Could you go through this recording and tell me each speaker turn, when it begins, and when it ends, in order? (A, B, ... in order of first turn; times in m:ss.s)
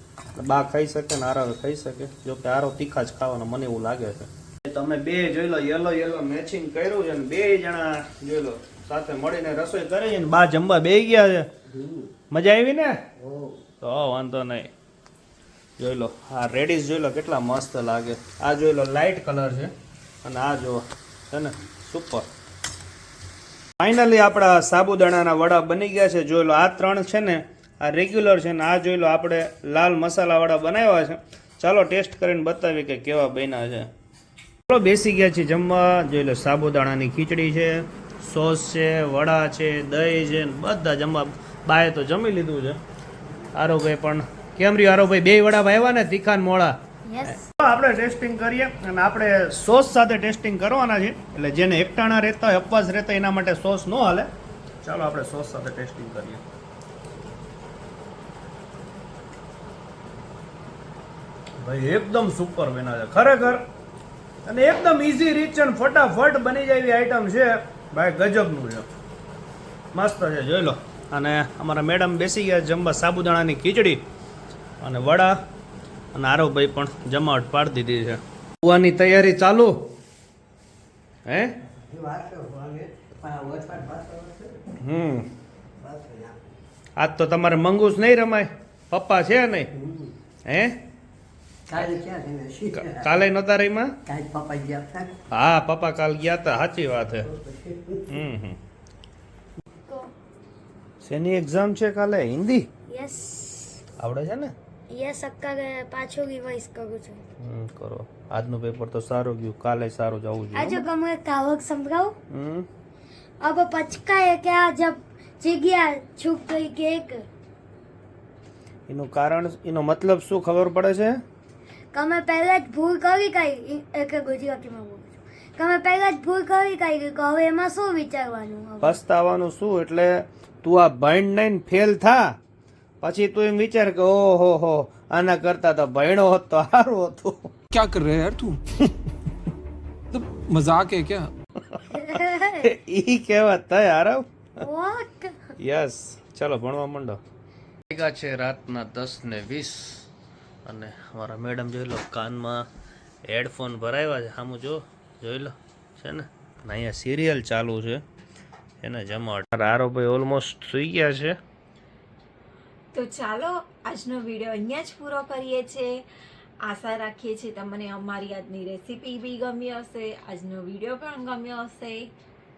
0:00.3-0:11.5 A
0:11.7-0:12.1 B
0:12.3-0:13.0 A
0:13.2-0:13.6 B
0:13.8-0:14.7 A
0:15.8-0:19.7 A
0:20.2-0:22.2 A
0:23.8-0:33.9 A
0:34.7-0:42.8 A
0:43.5-0:54.3 A
0:47.1-0:47.5 C
0:54.8-0:56.4 A
1:01.6-1:03.6 A
1:04.4-1:08.9 A
1:09.9-1:14.0 A
1:14.8-1:15.4 A
1:16.1-1:19.8 A
1:21.2-1:21.5 A
1:21.7-1:24.6 B
1:24.8-1:25.3 A
1:25.8-1:26.4 B
1:27.0-1:29.7 A
1:30.4-1:30.8 A
1:31.7-1:33.1 B
1:32.7-1:33.9 A
1:34.0-1:35.1 B
1:35.3-1:37.3 A
1:37.3-1:38.0 B
1:38.1-1:38.6 A
1:41.0-1:42.6 A
1:42.9-1:43.8 C
1:44.0-1:44.5 A
1:44.9-1:47.2 C
1:47.4-1:50.8 A
1:50.5-1:52.2 C
1:52.3-1:52.7 A
1:53.4-1:57.2 C
1:58.9-2:01.2 A
2:01.9-2:09.0 C
2:08.8-2:12.4 A
2:13.0-2:17.5 A
2:17.7-2:18.6 D
2:20.1-2:21.3 D
2:21.7-2:24.3 A
2:21.9-2:22.6 C
2:24.6-2:25.5 C
2:25.6-2:27.2 A
2:27.9-2:30.0 A
2:30.6-2:32.7 A
2:33.2-2:38.0 A
2:38.8-2:41.4 A
2:42.9-2:46.0 E
2:46.6-2:52.1 E